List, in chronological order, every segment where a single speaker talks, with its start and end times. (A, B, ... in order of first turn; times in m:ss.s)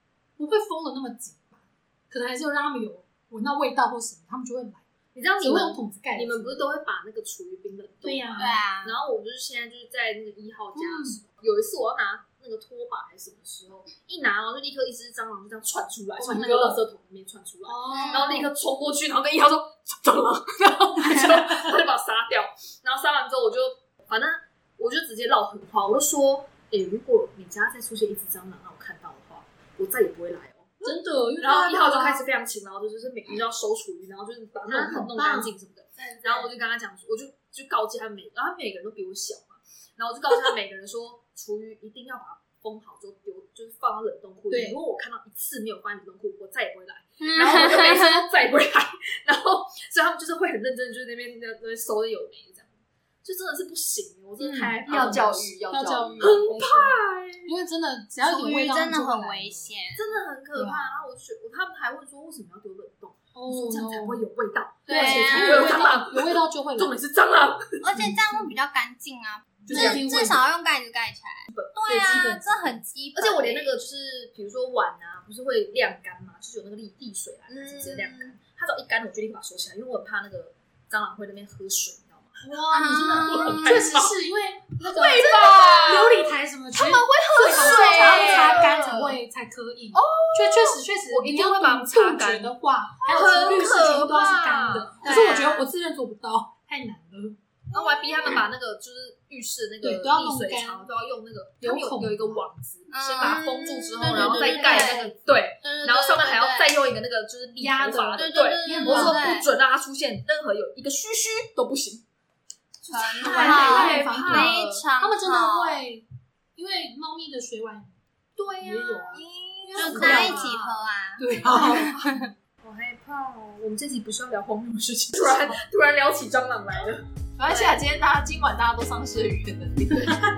0:00.4-0:04.8 A
0:05.1-0:52.7 B
0:05.4-0:06.6 A
0:08.0-0:08.6 A
0:08.4-0:09.0 C
0:10.8-0:11.2 A
0:16.2-0:16.8 A
0:17.6-0:18.5 A
0:17.9-0:18.4 C
0:21.0-0:21.7 A
0:30.8-0:32.2 A
0:34.6-0:35.5 A
0:36.0-0:36.5 D
0:44.5-0:44.8 A
0:47.2-0:48.2 C
0:53.2-0:55.6 B
0:54.4-0:59.7 A
0:54.9-0:56.5 D
0:56.2-0:57.5 B
0:58.2-1:00.0 C
1:00.0-1:07.8 B
1:00.5-1:00.9 A
1:03.3-1:04.2 A
1:04.9-1:05.9 C
1:04.9-1:06.9 A
1:07.8-1:13.7 C
1:08.0-1:08.5 A
1:09.6-1:10.5 A
1:09.7-1:10.0 B
1:11.5-1:12.6 B
1:12.4-1:12.8 A
1:13.1-1:22.4 B
1:17.5-1:18.3 D
1:22.4-1:37.4 A
1:22.7-1:23.8 C
1:23.3-1:24.1 B
1:24.8-1:29.1 B
1:27.6-1:28.8 D
1:29.9-1:35.4 B
1:35.0-1:35.7 C
1:37.7-1:52.0 B
1:39.8-1:40.9 A
1:41.6-1:42.4 A
1:42.9-1:46.7 C
1:44.0-1:45.0 A
1:47.6-1:49.3 A
1:47.9-1:49.5 C
1:52.8-1:54.8 B
1:52.9-1:55.8 C
1:53.2-1:56.0 A
1:56.6-1:57.9 A
1:58.4-2:00.8 B
1:58.6-2:00.5 A
1:59.8-2:01.2 C
1:59.8-2:00.2 D
2:01.2-2:02.3 A
2:01.3-2:07.0 B
2:07.4-2:10.2 D
2:07.5-2:07.7 C